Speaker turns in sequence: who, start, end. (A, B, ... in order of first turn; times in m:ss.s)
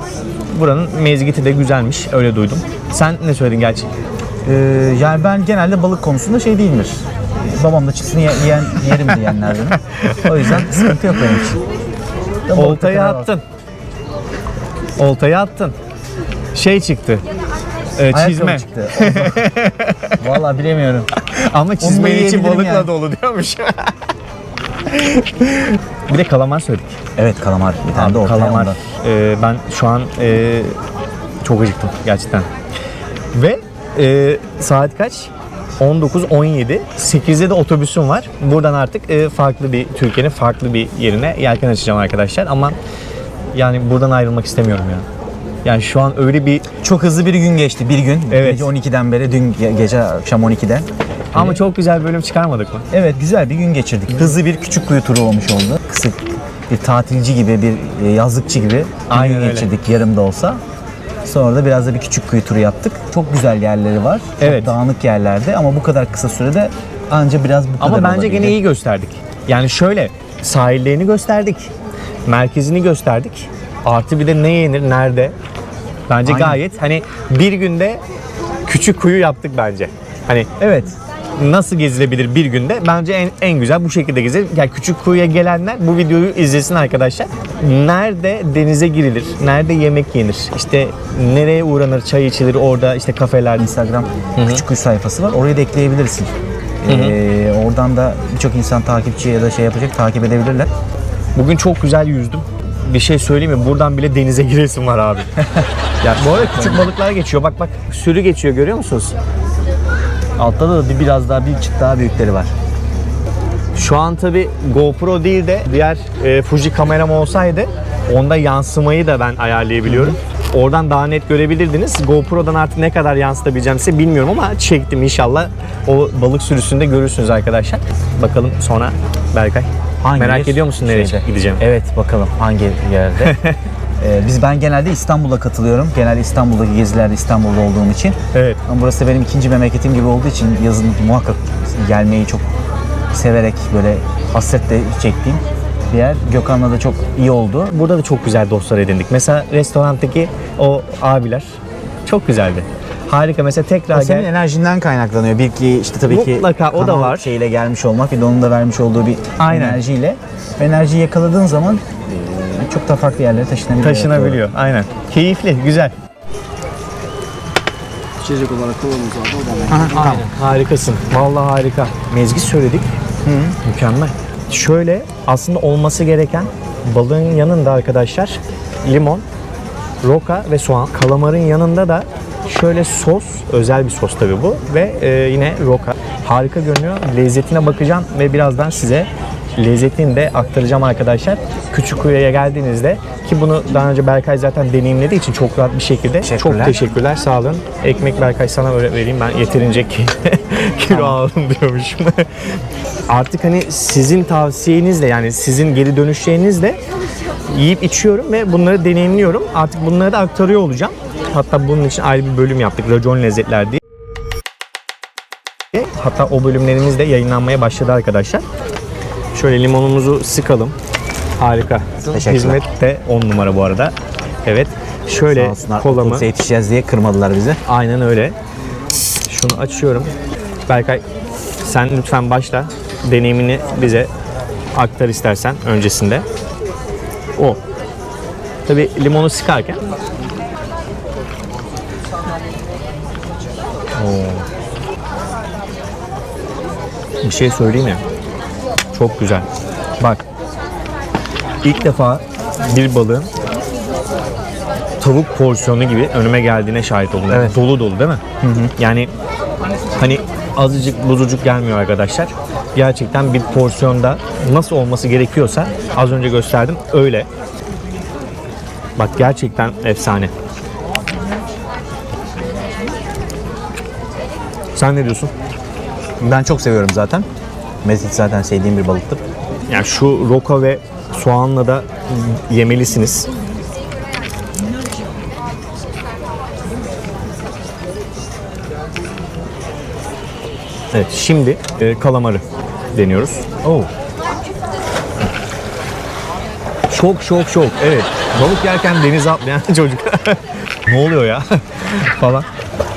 0:00.5-0:03.9 A
0:04.4-0:11.6 B
0:09.7-0:11.2 A
0:12.5-0:13.3 B
0:12.5-0:13.4 A
0:15.0-0:15.7 A
0:16.5-0:17.2 A
0:18.0-0:20.2 A
0:18.1-0:19.4 B
0:20.2-0:21.1 B
0:21.3-0:23.9 A
0:21.8-0:22.9 B
0:24.9-0:27.0 A
0:27.2-0:28.8 B
0:27.9-0:30.7 A
0:31.4-0:32.5 A
0:33.3-0:42.8 A
0:43.5-0:45.0 A
0:45.6-0:46.6 A
0:46.8-0:51.6 B
0:48.3-0:48.7 A
0:51.3-0:52.8 A
0:52.9-1:00.6 B
0:59.1-0:59.7 A
1:01.2-1:08.6 B
1:04.4-1:04.8 A
1:07.8-1:11.7 A
1:12.2-1:15.3 A
1:16.1-1:18.0 A
1:16.2-1:16.6 B
1:18.6-1:33.7 A
1:20.6-1:20.9 B
1:33.6-1:36.3 B
1:34.4-1:34.6 A
1:36.8-1:40.7 B
1:36.9-1:37.2 A
1:41.4-1:45.3 A
1:45.4-1:46.9 B
1:46.0-1:49.1 A
1:50.4-1:52.5 B
1:53.7-2:11.6 A
1:59.8-2:00.2 B
2:10.0-2:13.4 B
2:13.2-2:13.6 A
2:14.0-2:22.5 B
2:18.3-2:18.6 A
2:23.1-2:27.7 B
2:27.7-2:34.3 A
2:33.9-2:44.4 B
2:36.1-2:37.3 A
2:39.4-2:39.8 A
2:43.8-2:45.9 A
2:48.2-2:50.2 C
2:49.7-2:50.3 B
2:49.9-2:52.9 A
2:53.2-2:53.5 B
2:53.6-2:59.2 A
3:00.0-3:22.5 A
3:16.2-3:16.8 B
3:20.9-3:21.2 B
3:23.1-3:26.8 A
3:27.5-3:33.8 A
3:35.7-3:38.4 A
3:39.3-3:40.7 A
3:41.4-3:43.9 A
3:42.1-3:42.6 B
3:44.4-3:46.3 A
3:45.2-3:47.6 B
3:47.7-3:48.4 A
3:49.2-3:50.1 A
3:50.7-3:51.0 A
3:51.6-3:54.1 A
3:54.7-3:56.2 A
3:58.6-3:59.8 A
4:03.9-4:04.4 A
4:07.2-4:08.0 A
4:08.9-4:09.5 A
4:11.6-4:13.3 A
4:15.0-4:18.2 A
4:17.3-4:17.6 B
4:18.4-4:18.7 B
4:18.8-4:19.1 A
4:19.9-4:27.3 A
4:29.0-4:30.3 A
4:34.8-4:35.3 A
4:36.2-4:37.3 B
4:37.8-4:39.2 B
4:39.7-4:43.3 A
4:50.9-4:53.9 A
4:56.9-5:02.5 A